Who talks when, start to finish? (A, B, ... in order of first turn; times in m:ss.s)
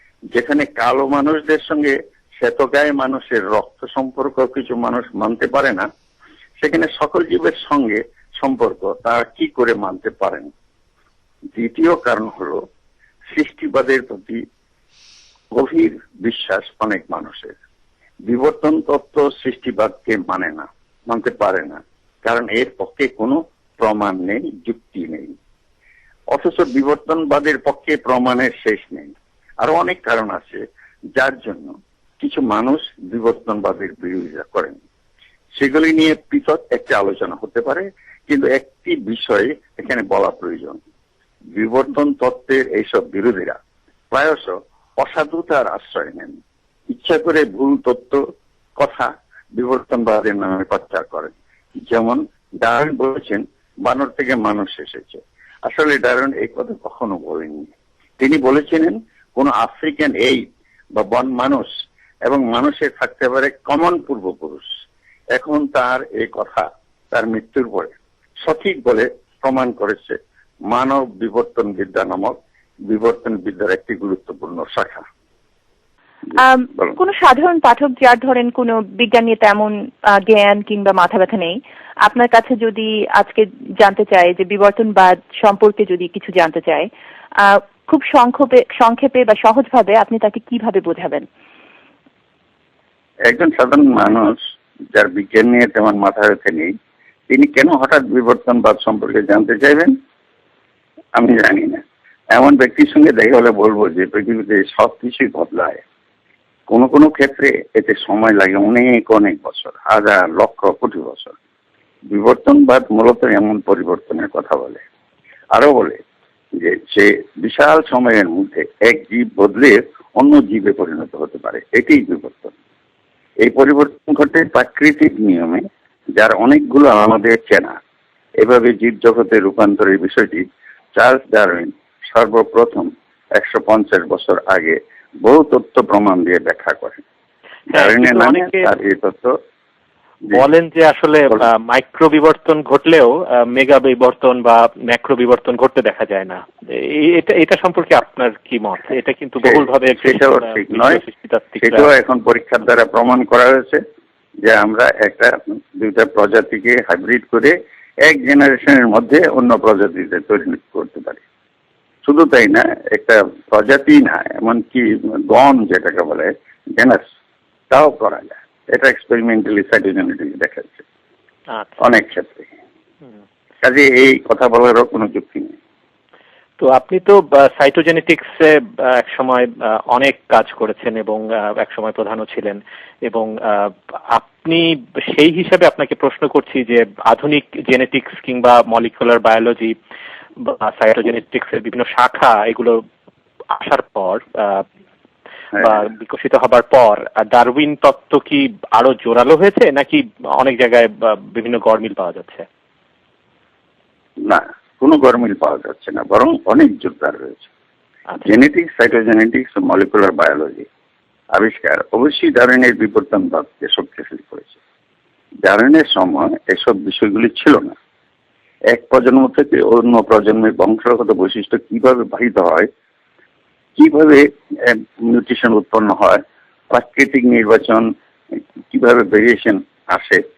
0:00.3-0:05.9 A
0:06.6-0:10.5 A
0:11.6-0:12.6 A
0:13.3-0:14.4 A
0:15.5-0:17.6 A
0:18.3-0:25.3 A
0:26.3-0:30.6 A
0:31.2-0:34.8 A
0:35.6-0:40.8 A
0:41.6-0:43.6 A
0:44.1-0:46.3 A
0:46.9-0:48.2 A
0:48.8-0:51.3 A
0:51.9-1:00.4 A
1:01.0-1:01.7 A
1:02.2-1:04.7 A
1:05.3-1:07.9 A
1:08.4-1:10.2 A
1:10.7-1:12.4 A
1:12.9-1:15.0 A
1:16.4-1:26.9 B
1:27.4-1:31.3 B
1:33.3-1:34.4 A
1:34.9-1:36.7 A
1:37.3-1:39.9 A
1:41.2-1:41.8 A
1:42.3-1:45.8 A
1:46.7-1:51.4 A
1:52.1-1:54.8 A
1:55.5-1:56.0 A
1:56.6-2:02.6 A
2:03.4-2:05.6 A
2:06.2-2:07.8 A
2:08.4-2:17.0 A
2:17.7-2:18.7 C
2:17.7-2:19.4 A
2:20.3-2:31.9 C
2:29.4-2:31.0 A
2:31.6-2:33.8 A
2:34.4-2:41.2 A
2:42.0-2:47.0 A
2:47.7-2:50.8 A
2:51.8-2:52.5 A
2:53.6-2:55.5 A
2:56.6-3:09.7 C
3:10.4-3:12.8 C
3:13.5-3:14.6 C
3:15.6-3:22.5 C
3:24.2-3:27.5 A
3:28.2-3:30.7 A
3:31.3-3:34.6 A
3:35.4-3:37.7 A
3:38.7-3:42.7 A
3:43.8-3:47.9 A
3:48.7-3:50.2 A